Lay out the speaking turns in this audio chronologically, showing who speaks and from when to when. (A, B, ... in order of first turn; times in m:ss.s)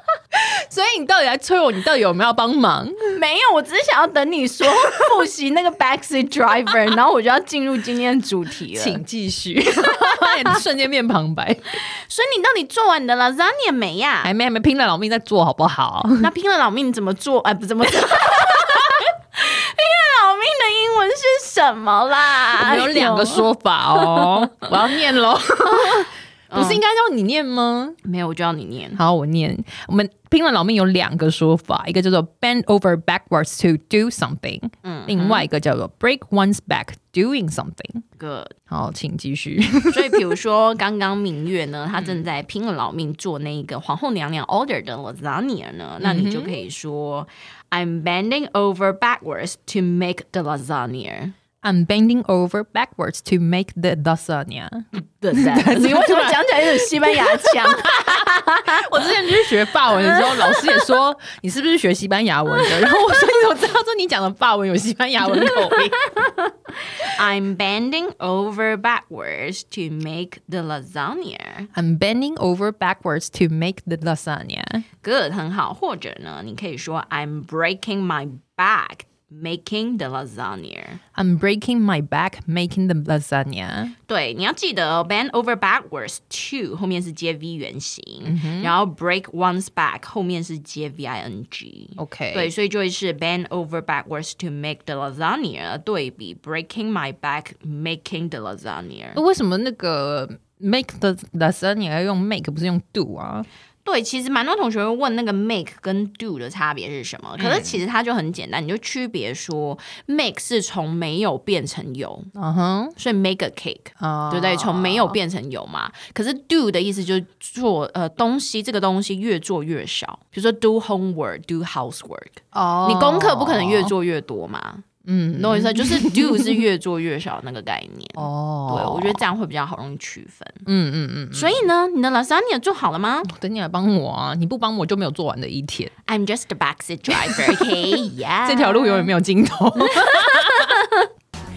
0:00.3-0:03.2 A
0:03.1-0:09.0 B
0:08.7-0:11.7 A
0:11.8-0:14.3 B
0:14.2-0:16.3 A
0:16.2-0:24.3 B
0:22.6-0:28.0 A
0:26.5-0:26.8 B
0:28.0-0:29.0 B
0:29.0-0:38.0 A
0:34.8-0:35.5 B
0:38.2-0:38.5 B
0:38.7-0:40.2 A
0:39.9-0:51.3 B
0:46.0-0:46.5 A
0:51.6-1:06.1 A
0:55.2-1:00.8 B
1:07.0-1:11.7 B
1:11.7-1:14.8 A
1:15.0-1:21.0 B
1:21.1-1:23.9 A
1:24.1-1:39.2 B
1:28.2-1:28.7 A
1:32.0-1:32.5 A
1:39.1-1:43.5 A
1:43.8-1:52.3 B
1:47.4-1:47.8 A
1:52.3-1:52.9 A
1:53.0-2:04.8 B
1:54.0-1:55.2 A
2:02.5-2:03.9 A
2:05.0-2:06.6 A
2:05.4-2:10.6 B
2:08.2-2:09.2 A
2:10.6-2:11.6 A
2:11.3-2:13.3 B
2:13.2-2:15.9 A
2:16.1-2:19.1 B
2:18.4-2:20.8 A
2:20.1-2:21.0 B